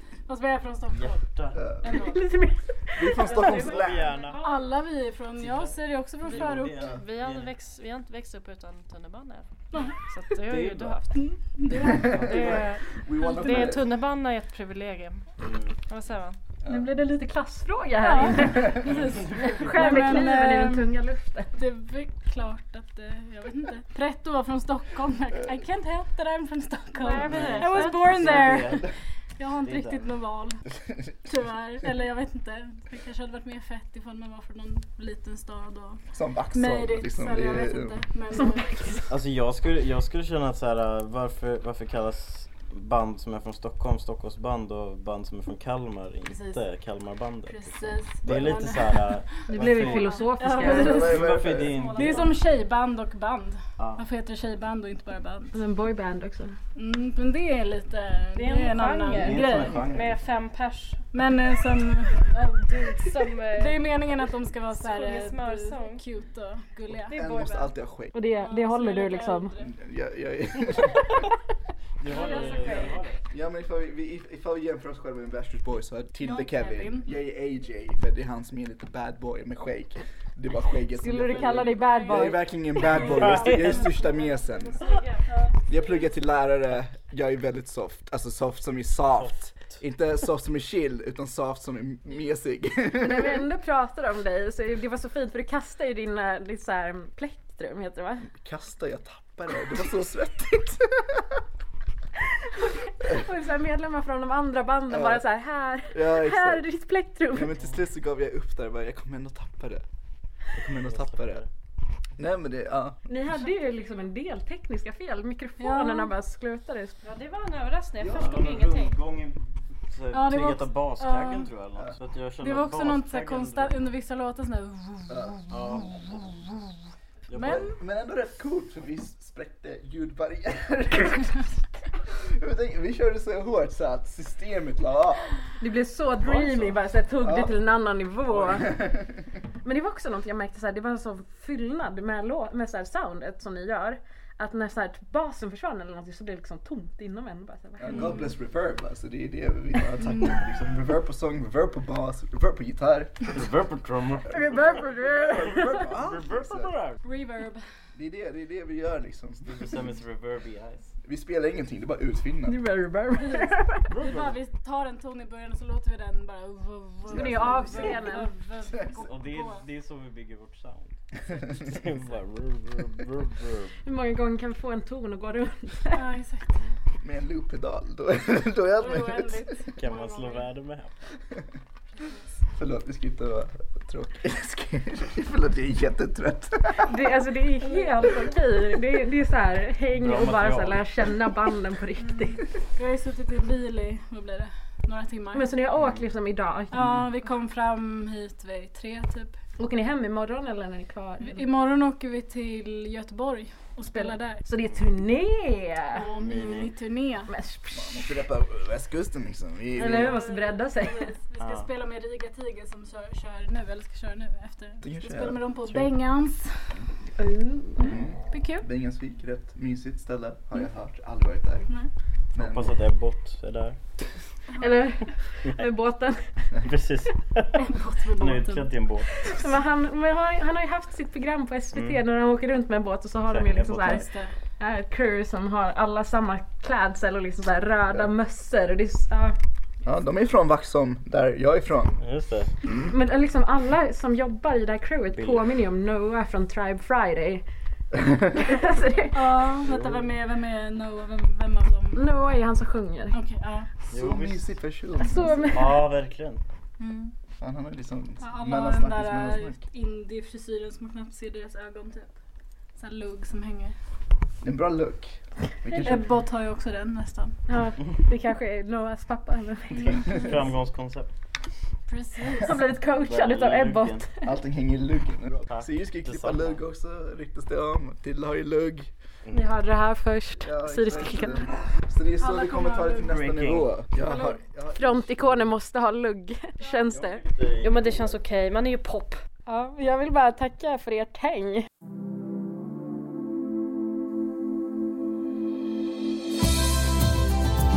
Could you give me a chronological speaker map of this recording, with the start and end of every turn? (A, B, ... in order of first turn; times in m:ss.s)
0:00.3-0:01.2 A
0:00.9-0:01.6 B
0:01.6-0:01.9 C
0:01.8-0:02.2 A
0:01.9-0:03.4 D
0:03.0-0:04.1 C
0:03.2-0:04.9 E
0:03.5-0:04.5 B
0:04.4-0:06.9 A
0:05.4-0:07.5 B
0:06.6-0:07.0 C
0:06.9-0:11.2 E
0:09.7-0:10.0 A
0:10.4-0:11.0 B
0:11.2-0:12.2 A
0:11.7-0:13.9 C
0:11.8-0:12.6 B
0:12.2-0:16.4 E
0:13.2-0:13.7 A
0:15.4-0:15.8 B
0:16.6-0:21.5 D
0:18.0-0:20.9 A
0:19.2-0:20.0 B
0:21.6-0:30.7 A
0:27.0-0:28.1 E
0:27.2-0:28.9 B
0:29.6-0:30.1 B
0:31.3-0:36.0 A
0:36.1-0:38.0 C
0:36.5-0:39.1 A
0:39.1-0:52.4 B
0:46.3-0:46.6 A
0:47.5-0:49.3 A
0:49.5-0:51.0 D
0:49.9-0:51.2 A
0:50.6-0:51.8 C
0:51.7-0:52.2 E
0:52.0-0:55.6 A
0:53.8-0:54.0 B
0:55.5-0:56.6 D
0:56.8-0:59.8 A
0:58.4-1:01.0 E
0:59.1-1:00.2 B
1:01.1-1:02.3 A
1:02.3-1:04.1 E
1:03.5-1:07.2 A
1:04.7-1:06.0 E
1:07.0-1:07.8 E
1:07.1-1:08.1 C
1:08.1-1:09.6 D
1:08.3-1:09.7 A
1:09.6-1:11.1 C
1:12.0-1:13.2 B
1:12.1-1:13.1 E
1:12.3-1:12.5 A
1:12.6-1:24.9 C
1:16.2-1:17.1 A
1:20.9-1:22.6 D
1:21.3-1:22.2 E
1:22.8-1:26.0 E
1:23.1-1:23.8 B
1:23.3-1:23.8 A
1:25.7-1:33.5 C
1:29.1-1:29.8 B
1:33.0-1:38.3 D
1:38.3-1:41.4 C
1:42.5-1:47.5 D
1:44.9-1:45.2 C
1:45.9-1:46.7 C
1:47.3-1:49.8 C
1:50.6-1:51.5 C
1:50.6-1:51.5 B
1:52.2-1:53.0 C
1:53.1-1:57.0 D
1:55.6-1:56.1 A
1:57.0-1:59.0 E
1:58.0-1:58.5 C
1:58.1-2:03.8 B
2:00.1-2:01.5 A
2:02.4-2:06.5 A
2:05.1-2:05.4 C
2:05.5-2:06.5 B
2:07.3-2:07.7 B
2:07.3-2:07.7 A
2:07.4-2:11.4 C
2:12.1-2:15.4 C
2:15.6-2:18.8 D
2:16.2-2:16.8 B
2:17.2-2:17.6 C
2:18.4-2:19.3 C
2:19.6-2:28.2 D
2:27.8-2:33.3 C
2:27.9-2:28.3 A
2:30.0-2:30.4 A
2:33.3-2:37.0 B
2:34.3-2:35.9 D
2:35.6-2:36.7 C
2:37.0-2:37.6 A
2:38.0-2:39.7 C
2:39.4-2:40.9 B
2:41.0-2:42.6 C
2:42.5-2:43.9 D
2:43.9-2:44.4 B
2:44.0-2:49.7 A
2:47.1-2:48.1 C
2:47.1-2:48.3 D
2:48.9-2:53.8 B
2:53.8-2:56.1 D
2:55.9-2:56.6 A
2:57.0-2:59.6 C
2:58.8-3:00.5 A
2:59.8-3:01.1 B
3:02.5-3:06.9 C
3:06.8-3:12.5 D
3:07.7-3:08.1 A
3:10.0-3:10.8 B
3:12.7-3:15.5 A
3:15.3-3:17.0 D
3:16.7-3:19.4 A
3:19.6-3:21.5 D
3:21.2-3:24.4 A
3:23.9-3:26.1 D
3:25.9-3:27.3 A
3:26.2-3:26.8 B
3:27.3-3:28.1 D
3:27.7-3:30.2 C
3:29.7-3:31.0 D
3:30.1-3:36.5 A
3:31.4-3:31.7 B
3:34.8-3:35.5 C
3:35.6-3:36.0 B
3:37.2-3:38.0 D
3:37.8-3:41.7 C
3:38.3-3:38.7 A
3:42.3-3:42.8 C
3:42.4-3:43.8 B
3:44.6-3:46.3 D
3:46.6-3:49.2 B
3:47.6-3:48.7 A
3:49.2-3:54.1 D
3:51.7-3:52.0 B
3:53.3-3:54.1 B
3:53.9-3:54.3 A
3:54.6-3:59.4 D
3:59.8-4:02.0 C
4:02.0-4:02.5 B
4:02.6-4:02.9 C
4:02.9-4:07.4 D
4:05.1-4:05.5 B
4:07.9-4:08.3 C
4:08.3-4:09.4 D
4:09.1-4:12.1 A
4:09.7-4:10.0 B
4:11.9-4:13.2 D
4:13.1-4:13.7 A
4:13.9-4:14.5 B
4:13.9-4:15.6 C
4:15.0-4:15.8 D
4:15.5-4:16.4 B
4:16.8-4:17.1 A
4:17.4-4:19.6 C
4:18.2-4:22.2 A
4:22.8-4:23.8 A
4:24.4-4:26.1 C
4:25.7-4:27.4 A
4:27.5-4:30.3 D
4:29.7-4:30.4 A
4:30.1-4:31.1 B
4:31.9-4:32.5 A
4:32.3-4:34.3 D
4:32.8-4:34.1 B
4:34.2-4:38.9 C
4:35.4-4:36.6 B
4:39.2-4:39.5 B
4:39.3-4:41.5 D
4:40.4-4:45.5 C
4:42.2-4:43.1 A
4:43.1-4:43.7 B
4:44.8-4:47.2 D
4:46.9-4:48.2 B
4:47.6-4:49.2 E
4:49.5-4:51.7 D